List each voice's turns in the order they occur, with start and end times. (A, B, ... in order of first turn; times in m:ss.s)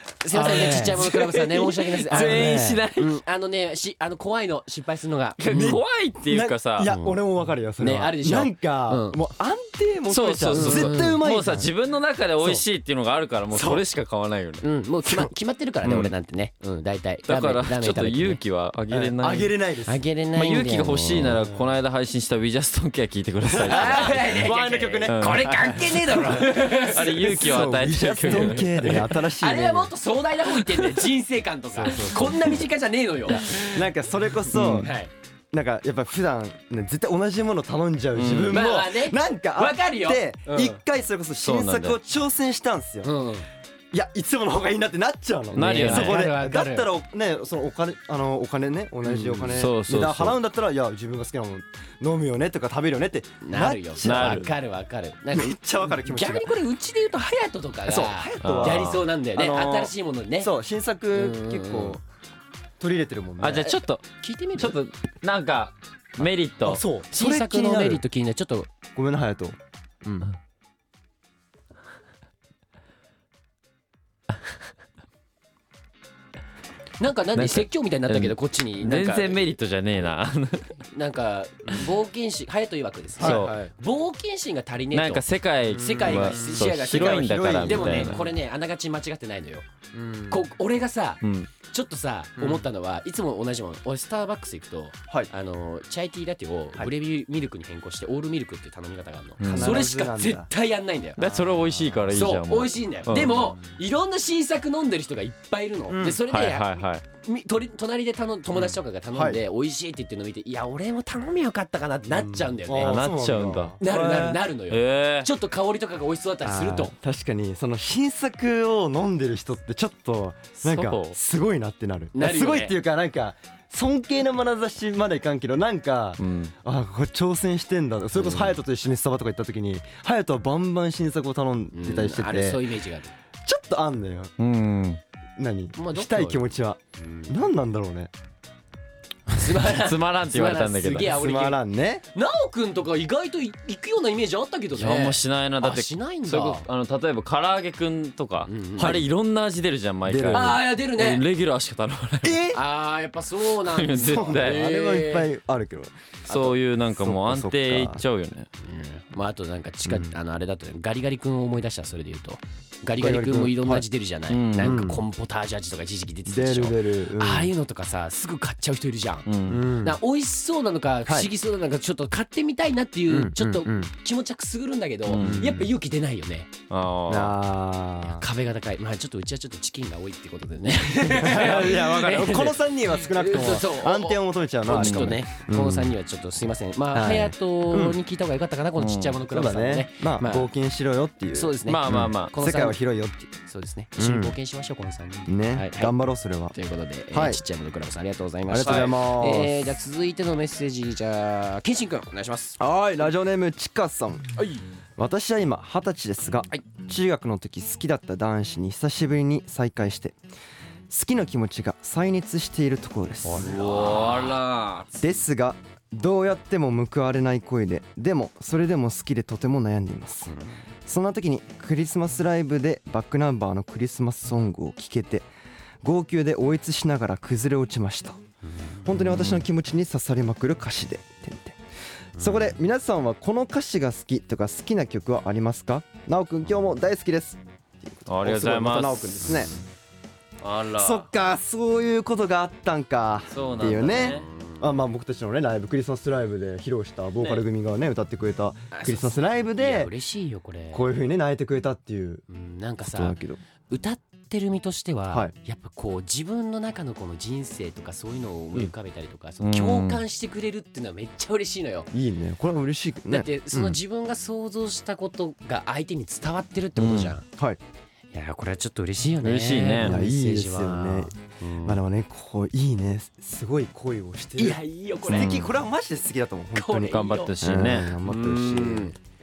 0:00.2-0:05.8 A
0:00.3-0:01.1 B
0:00.4-0:03.2 C
0:02.1-0:02.8 B
0:05.4-0:06.9 C
0:05.5-0:11.7 B
0:06.8-0:07.2 A
0:07.8-0:09.2 A
0:10.1-0:14.6 C
0:10.5-0:11.2 A
0:13.5-0:13.8 B
0:14.6-0:18.4 A
0:15.0-0:15.3 B
0:15.8-0:16.1 C
0:17.3-0:19.5 C
0:18.9-0:20.0 B
0:19.8-0:21.4 A
0:20.3-0:24.5 C
0:21.2-0:21.6 B
0:23.4-0:29.9 B
0:23.6-0:33.8 A
0:25.0-0:29.1 C
0:31.7-0:32.7 B
0:33.3-0:34.9 B
0:34.4-0:35.1 A
0:35.5-0:43.1 B
0:38.1-0:38.7 C
0:38.5-0:40.8 A
0:41.4-0:42.0 C
0:43.0-0:43.5 A
0:43.9-0:54.5 B
0:45.5-0:46.2 C
0:45.5-0:46.9 A
0:49.0-0:49.5 A
0:49.4-0:50.4 C
0:53.4-1:00.5 A
0:54.0-0:54.5 C
0:55.3-0:56.5 B
0:57.9-1:02.0 B
0:58.4-0:59.1 C
1:01.1-1:02.0 A
1:02.8-1:03.8 B
1:03.4-1:06.8 C
1:03.6-1:04.8 A
1:06.2-1:08.0 B
1:07.1-1:08.7 A
1:08.9-1:10.3 B
1:17.0-1:19.4 A
1:17.3-1:20.8 C
1:20.8-1:29.7 A
1:23.2-1:23.7 B
1:23.2-1:23.6 C
1:24.9-1:28.2 C
1:25.7-1:28.3 B
1:29.9-1:30.4 B
1:30.3-1:41.5 A
1:31.2-1:31.5 C
1:32.4-1:32.6 B
1:39.4-1:39.8 C
1:39.4-1:40.5 B
1:41.2-1:43.5 C
1:42.1-1:53.0 A
1:43.1-1:43.7 B
1:45.9-1:46.2 B
1:46.2-1:47.0 C
1:48.6-1:49.4 B
1:52.1-1:54.4 B
1:52.8-1:53.8 C
1:53.8-1:56.9 A
1:54.7-1:55.3 C
1:56.4-2:12.7 B
2:00.6-2:01.2 C
2:02.1-2:02.8 A
2:06.2-2:06.5 C
2:08.2-2:08.6 A
2:11.7-2:13.1 A
2:13.4-2:14.3 B
2:14.4-2:15.0 C
2:15.4-2:18.1 B
2:15.8-2:16.4 A
2:17.0-2:17.4 A
2:19.3-2:21.6 A
2:19.6-2:21.1 C
2:21.0-2:22.0 B
2:22.1-2:26.7 A
2:24.8-2:32.4 C
2:28.4-2:29.0 A
2:28.8-2:29.0 B
2:30.0-2:30.6 B
2:30.3-2:31.2 A
2:32.2-2:32.6 B
2:32.5-2:35.3 A
2:33.6-2:34.6 C
2:34.1-2:38.0 B
2:36.3-2:38.5 C
2:38.6-2:49.3 A
2:39.8-2:40.2 B
2:43.0-2:43.8 B
2:44.3-2:44.8 C
2:44.6-2:45.0 B
2:46.3-2:47.5 B
2:49.2-2:49.7 C
2:49.5-2:50.0 B
2:49.8-2:56.5 A
2:53.1-2:53.9 B
2:55.1-2:55.5 C
2:55.2-2:55.7 B
2:56.7-2:57.4 C
2:57.1-2:58.3 B
2:58.0-3:10.5 A
3:01.0-3:05.9 B
3:04.7-3:05.2 C
3:06.9-3:08.0 B
3:08.8-3:09.2 C
3:09.3-3:13.3 B
3:11.3-3:12.8 A
3:11.6-3:12.3 C
3:13.4-3:15.9 A
3:14.0-3:14.4 B
3:15.3-3:16.5 B
3:16.5-3:22.6 A
3:17.1-3:17.4 B
3:18.5-3:19.7 B
3:18.6-3:18.9 C
3:22.6-3:24.3 B
3:24.4-3:24.6 A
3:25.0-3:30.2 B
3:30.9-3:33.9 B
3:33.2-3:34.4 A
3:33.3-3:35.0 C
3:35.0-3:40.3 B
3:40.2-3:40.6 A
3:40.8-3:45.3 B
3:45.8-3:48.2 B
3:48.4-3:48.9 A
3:48.8-3:51.6 B
3:49.0-3:49.4 C
3:52.2-3:59.5 B
3:52.2-3:52.5 A
3:58.1-3:59.3 C
4:00.4-4:01.1 C
4:00.7-4:09.9 B
4:03.3-4:04.2 C
4:03.9-4:04.6 A
4:07.2-4:07.4 C
4:08.7-4:10.9 A
4:10.7-4:12.2 B
4:12.3-4:13.2 A
4:12.8-4:13.4 B
4:13.7-4:21.9 A
4:19.4-4:20.0 C
4:21.9-4:23.8 B
4:23.1-4:27.2 A
4:26.8-4:27.2 C
4:28.1-4:31.8 A
4:29.2-4:30.0 C
4:29.8-4:38.9 B
4:34.4-4:35.5 A
4:35.1-4:35.5 C
4:36.5-4:39.0 A
4:36.9-4:37.9 C